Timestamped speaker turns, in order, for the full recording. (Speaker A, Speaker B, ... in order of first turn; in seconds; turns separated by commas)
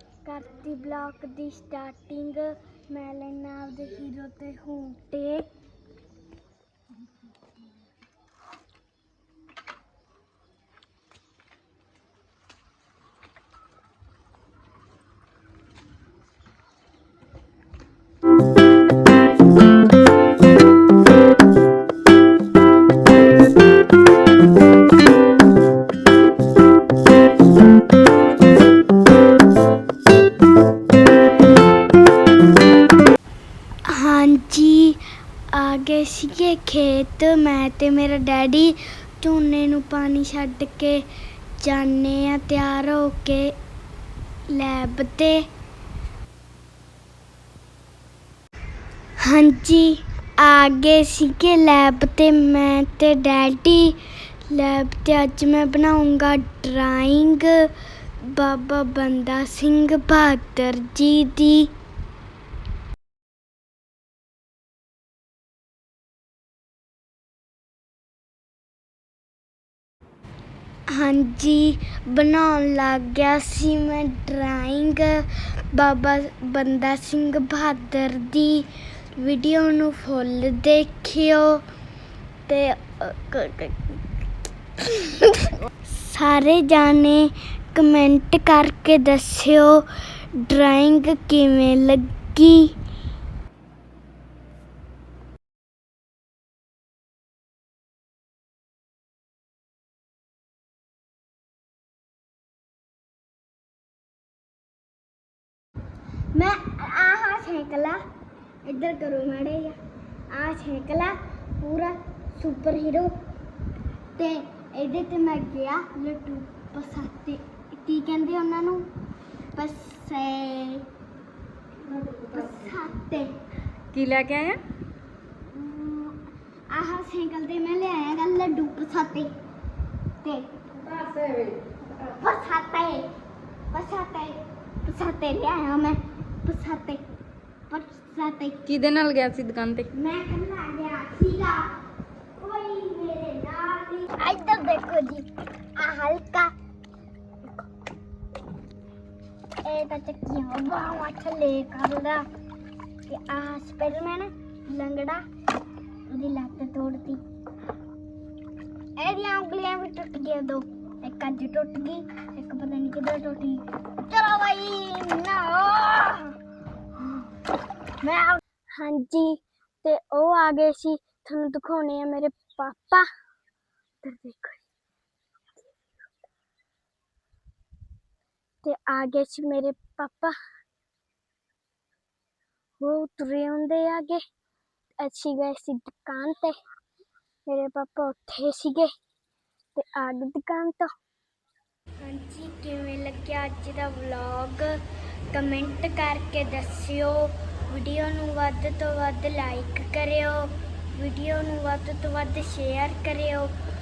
Speaker A: 0.2-5.5, Speaker A: 33.9-41.0, Speaker A: 41.6-43.5, Speaker A: 44.5-45.5, Speaker A: 49.2-61.7, Speaker A: 70.9-81.6, Speaker A: 82.5-84.0, Speaker A: 84.8-92.8, Speaker A: 106.3-108.0, Speaker A: 108.7-109.8, Speaker A: 110.3-113.1, Speaker A: 114.2-118.9, Speaker A: 119.5-120.9, Speaker B: 121.9-122.6, Speaker A: 122.3-123.3, Speaker B: 123.9-124.6, Speaker A: 125.5-129.3, Speaker A: 130.2-130.5, Speaker B: 130.8-131.6, Speaker A: 132.0-133.1, Speaker A: 133.7-137.0, Speaker A: 137.7-138.6, Speaker B: 138.7-139.9, Speaker A: 139.9-141.8, Speaker A: 142.4-146.5, Speaker A: 149.6-152.2, Speaker A: 153.1-155.2, Speaker A: 156.1-157.2, Speaker A: 159.0-166.3, Speaker A: 168.0-173.1, Speaker A: 174.0-174.7, Speaker A: 178.6-180.3, Speaker A: 182.8-184.2, Speaker A: 185.0-186.6, Speaker A: 187.5-188.9, Speaker A: 189.8-190.9, Speaker A: 192.0-194.8, Speaker A: 195.3-203.5